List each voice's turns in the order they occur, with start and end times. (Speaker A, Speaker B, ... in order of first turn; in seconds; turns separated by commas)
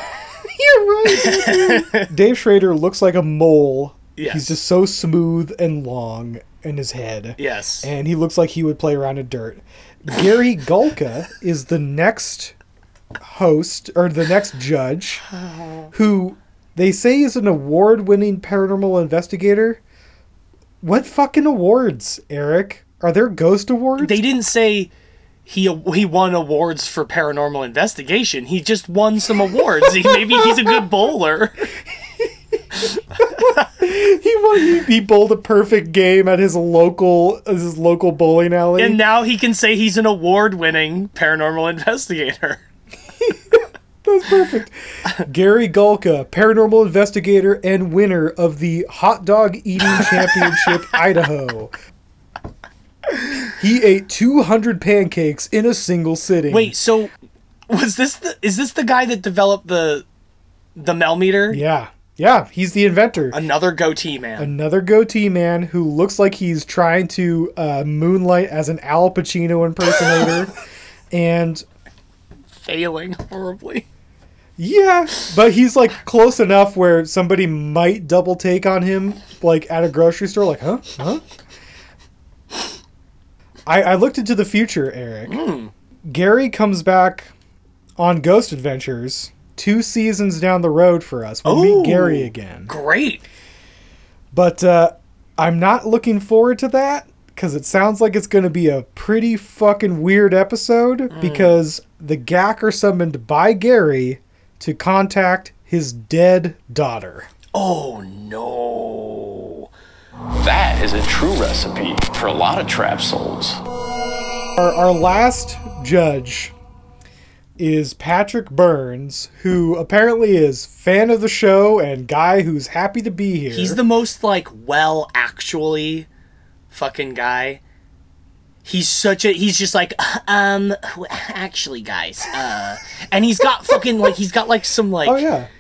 Speaker A: 0.5-12.6, Speaker B: 1.1-2.1, Speaker B: 4.2-4.5, Speaker B: 7.4-7.9, Speaker A: 13.2-15.2, Speaker B: 15.4-15.9, Speaker A: 15.9-19.8, Speaker A: 20.8-24.2, Speaker B: 24.0-24.9, Speaker B: 25.5-31.7, Speaker A: 30.1-30.5, Speaker B: 33.4-33.6, Speaker A: 33.8-39.0, Speaker B: 38.8-42.6, Speaker A: 44.0-51.7, Speaker A: 53.6-56.7, Speaker B: 56.5-57.1, Speaker B: 57.7-60.0, Speaker B: 60.8-61.6, Speaker A: 61.5-63.4, Speaker B: 63.3-64.5, Speaker A: 64.4-70.5, Speaker A: 71.1-71.6, Speaker B: 72.6-73.8, Speaker A: 74.6-81.2, Speaker A: 83.7-85.4, Speaker B: 85.3-85.7, Speaker A: 86.0-87.3, Speaker A: 88.0-92.7, Speaker B: 91.5-93.2, Speaker A: 94.3-107.3, Speaker B: 101.1-101.6, Speaker B: 107.5-109.7, Speaker C: 110.4-113.6, Speaker A: 114.6-116.5, Speaker A: 117.6-123.8, Speaker B: 123.5-126.1, Speaker B: 126.7-127.6, Speaker B: 128.7-135.2, Speaker A: 135.0-135.5